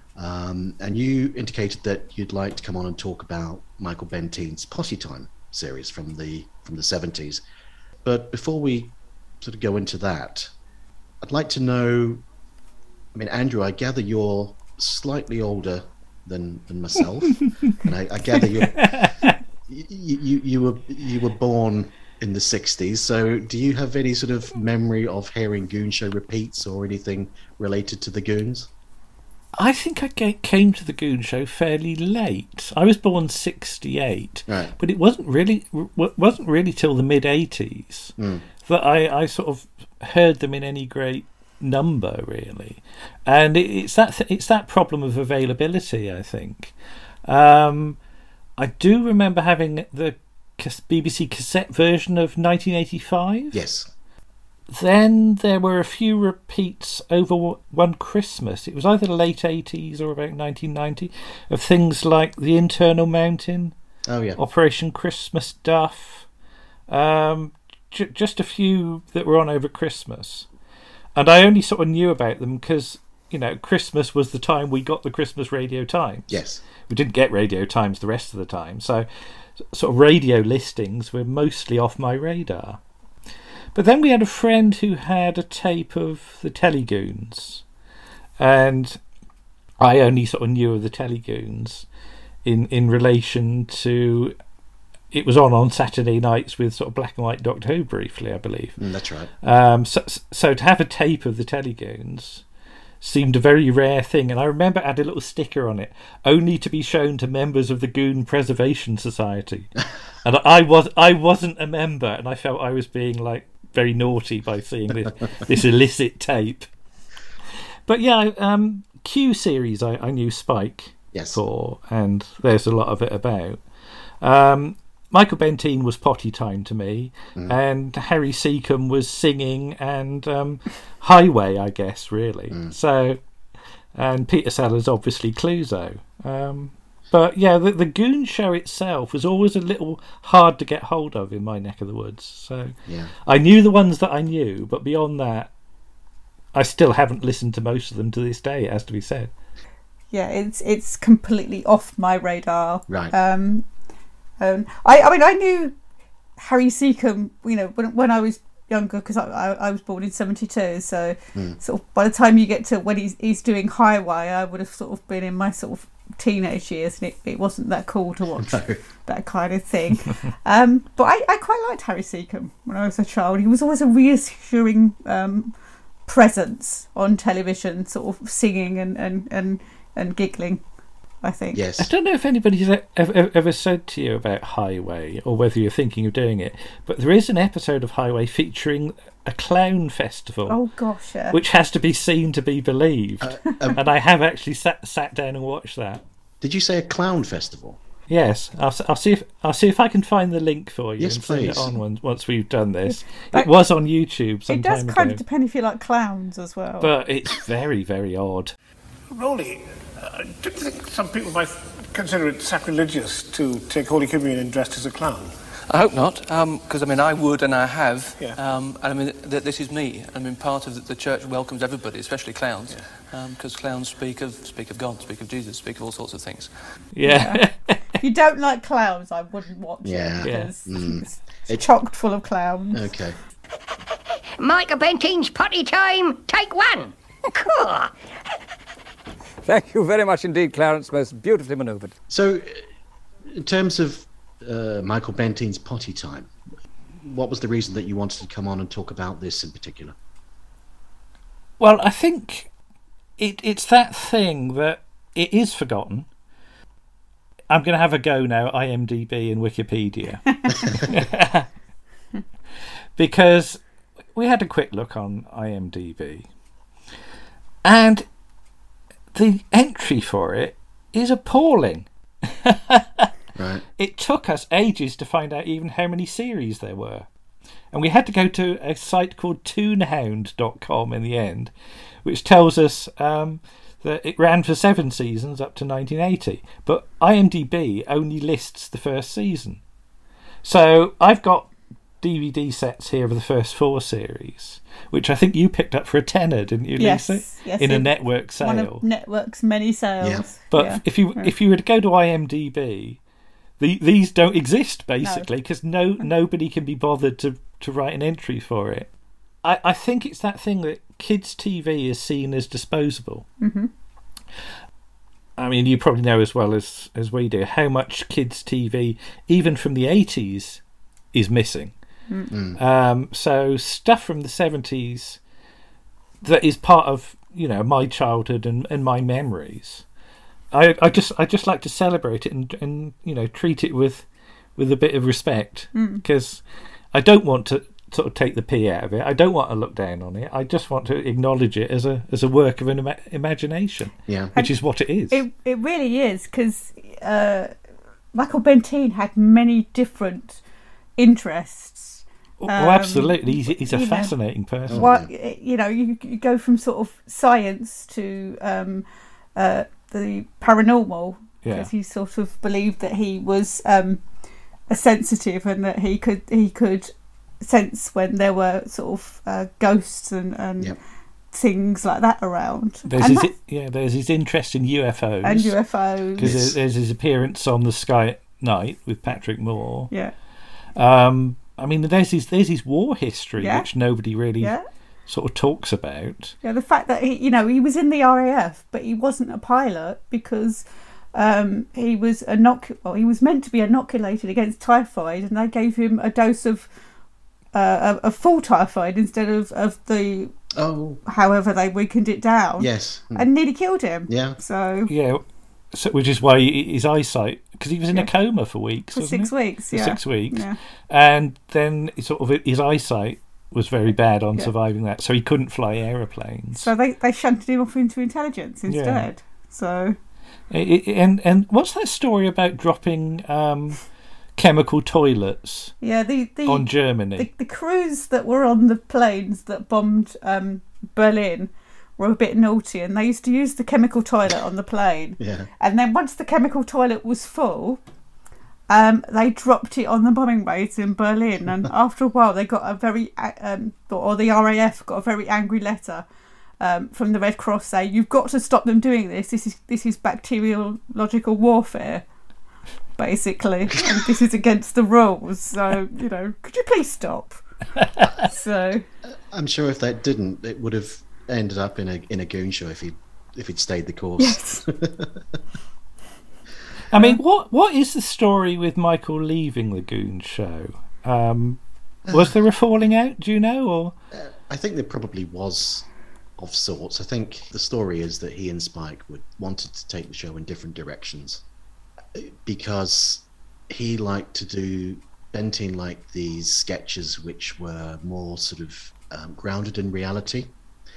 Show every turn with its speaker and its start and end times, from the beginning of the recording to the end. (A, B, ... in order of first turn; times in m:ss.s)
0:00.2-0:07.4 A
0:08.0-0:10.5 A
0:11.2-0:12.2 A
0:13.1-0:28.7 A
0:18.7-0:19.4 B
0:29.6-0:46.7 B
0:34.5-0:34.7 A
0:38.2-0:38.5 A
0:47.2-0:48.0 B
0:48.6-0:53.6 B
0:53.5-0:53.9 A
0:54.7-1:03.7 B
1:04.0-1:04.4 A
1:04.4-1:06.2 B
1:06.9-1:10.5 B
1:11.2-1:16.3 B
1:16.3-1:16.6 A
1:16.9-1:19.0 B
1:19.7-1:22.8 B
1:23.7-1:27.6 B
1:28.4-1:29.0 B
1:29.8-1:31.8 B
1:32.4-1:34.3 B
1:35.1-1:38.8 B
1:38.8-1:39.3 A
1:39.4-1:42.4 B
1:43.0-1:56.7 B
1:57.9-2:03.6 B
2:01.1-2:01.4 A
2:04.2-2:13.2 B
2:13.9-2:22.7 B
2:22.8-2:23.1 A
2:23.2-2:25.5 B
2:26.5-2:29.3 B
2:30.1-2:33.6 C
2:32.9-2:33.1 A
2:34.4-2:35.7 C
2:36.4-2:55.5 C
2:48.4-2:48.8 A
2:56.1-3:00.6 C
3:01.2-3:01.6 C
3:01.5-3:01.9 A
3:01.8-3:10.6 B
3:10.5-3:11.4 C
3:11.3-3:16.0 B
3:13.2-3:13.8 A
3:16.4-3:17.8 A
3:18.1-3:25.2 B
3:21.0-3:21.8 A
3:22.9-3:23.5 C
3:24.5-3:26.9 C
3:26.8-3:28.5 B
3:29.1-3:35.3 D
3:35.7-3:46.5 E
3:46.9-3:47.8 B
3:47.0-3:47.4 C
3:47.9-3:52.9 C
3:49.8-3:51.6 A
3:50.2-3:50.5 B
3:52.7-3:53.2 A
3:54.4-3:57.9 F
3:59.4-4:01.9 G
4:02.1-4:02.6 A
4:03.2-4:06.3 A
4:07.0-4:09.9 A
4:11.6-4:12.5 B
4:13.2-4:16.1 B
4:17.5-4:21.5 B
4:23.0-4:23.6 B
4:24.1-4:26.2 B
4:27.6-4:28.0 B
4:29.1-4:33.1 B
4:33.4-4:33.6 A
4:33.8-4:37.1 B
4:37.7-4:41.5 B
4:42.0-4:49.6 B
4:50.4-4:58.8 B
4:56.8-5:01.3 C
5:00.0-5:00.2 A
5:00.5-5:03.0 B
5:03.6-5:08.9 B
5:09.4-5:13.3 B
5:13.4-5:13.7 C
5:15.4-5:20.6 B
5:21.1-5:21.7 B
5:22.3-5:22.6 A
5:22.6-5:25.2 B
5:26.2-5:29.8 B
5:30.5-5:34.0 B
5:34.6-5:36.4 B
5:35.7-5:36.0 C
5:36.9-5:45.2 B
5:44.1-5:44.3 A
5:45.1-5:47.5 C
5:48.1-5:50.4 C
5:51.0-5:54.1 C
5:52.4-5:54.8 B
5:54.7-5:55.1 A
5:54.7-6:04.0 C
6:01.4-6:01.7 B
6:04.7-6:10.7 C
6:11.3-6:13.3 C
6:12.8-6:15.6 B
6:15.2-6:16.3 C
6:16.2-6:19.9 B
6:16.2-6:16.6 A
6:20.8-6:24.5 B
6:23.4-6:23.7 C
6:25.1-6:26.3 B
6:26.4-6:36.7 C
6:37.5-6:40.3 C
6:40.5-6:41.0 A
6:41.0-6:44.9 C
6:42.6-6:43.3 A
6:44.1-6:44.4 A
6:44.9-6:56.7 B
6:48.9-6:50.6 C
6:56.5-7:00.0 C
6:58.7-6:59.1 B
7:00.5-7:03.8 B
7:04.4-7:05.7 B
7:05.8-7:17.8 C
7:06.5-7:07.3 B
7:15.2-7:15.5 A
7:18.7-7:26.0 C
7:26.6-7:32.0 C
7:33.0-7:37.4 C
7:38.2-7:38.8 C
7:39.3-7:45.2 A
7:44.2-7:44.6 C
7:46.9-7:53.9 B
7:46.9-7:47.2 C
7:54.1-7:55.9 A
7:56.4-8:01.4 A
8:02.1-8:10.5 A